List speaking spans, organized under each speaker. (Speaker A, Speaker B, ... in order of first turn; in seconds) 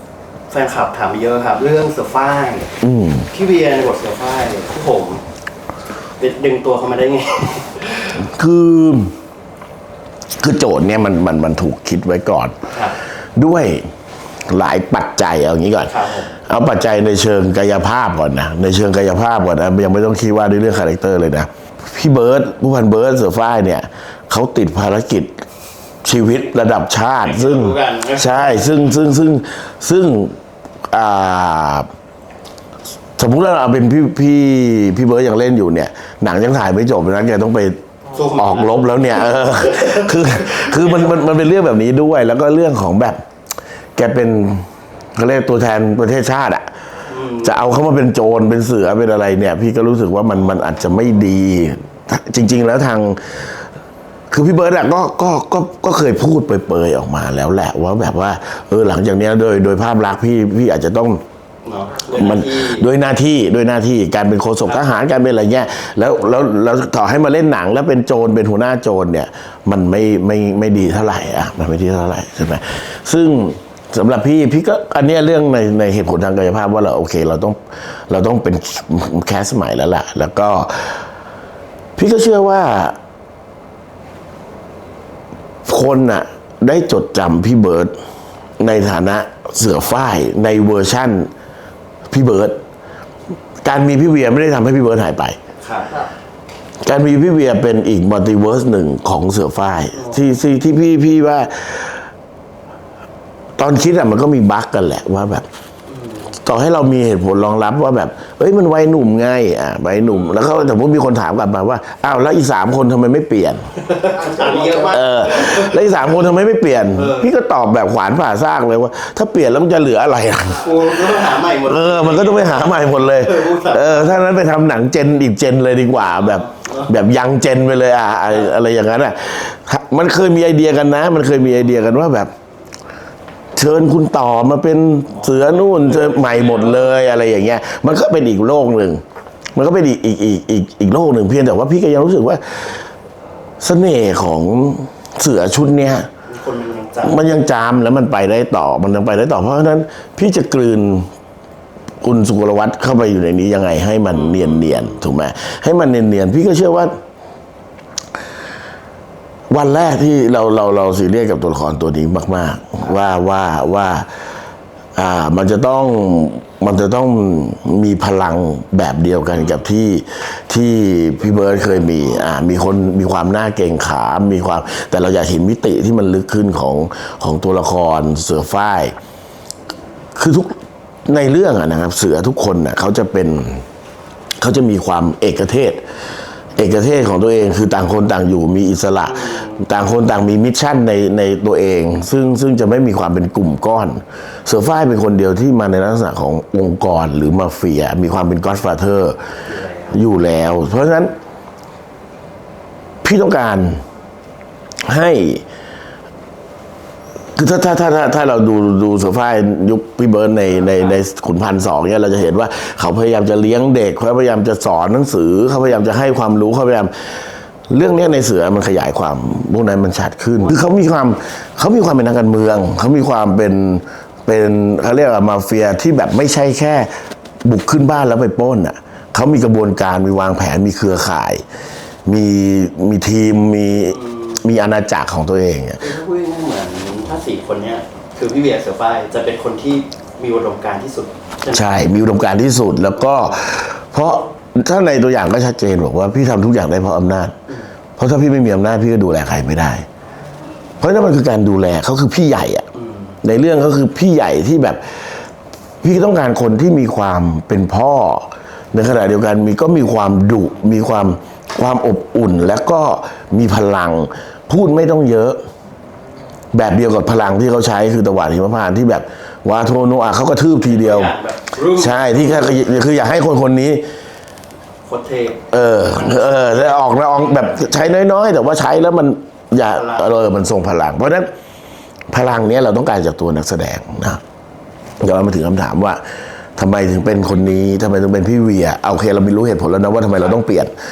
Speaker A: 0.5-2.7, 3.3-5.2, 6.2-8.2, 15.9-16.3, 27.2-28.7, 38.1-38.8, 47.1-47.6, 61.6-62.9, 95.6-96.1, 99.9-100.2, 105.9-106.3, 113.9-115.8, 117.0-117.3, 120.5-124.2, 126.0-126.9, 135.1-137.0, 146.3-147.2, 154.1-155.1, 169.3-169.6, 171.3-172.3, 189.1-189.6, 199.5-200.0, 233.9-234.4, 235.8-241.7, 252.8-253.2, 270.7-272.6, 274.9-276.6, 279.7-280.2
Speaker B: 2.8-3.3, 8.2-9.1, 10.4-12.6, 13.4-13.9, 14.5-25.4, 26.1-30.4, 30.9-31.9, 33.2-37.8, 38.4-43.2, 44.0-46.7, 47.4-53.6, 54.3-61.2, 62.1-77.6, 78.1-81.1, 82.0-83.0, 85.7-88.0, 88.6-91.3, 92.1-92.6, 93.6-95.4, 96.8-102.0, 103.6-105.5, 106.4-113.7, 114.9-132.3, 133.6-139.0, 139.6-142.8, 143.6-146.1, 147.0-151.1, 152.0-157.0, 159.5-164.1, 165.0-178.9, 180.2-183.6, 184.4-185.8, 186.6-199.2, 199.9-201.1, 203.0-203.8, 204.9-205.4, 207.4-216.9, 217.7-226.9, 227.4-231.4, 232.1-235.8, 241.5-247.3, 248.0-249.8, 250.8-252.7, 253.2-255.0, 255.8-265.4, 266.5-271.1, 271.8-273.8, 275.5-281.3, 282.1-284.2, 285.0-286.0, 286.6-290.7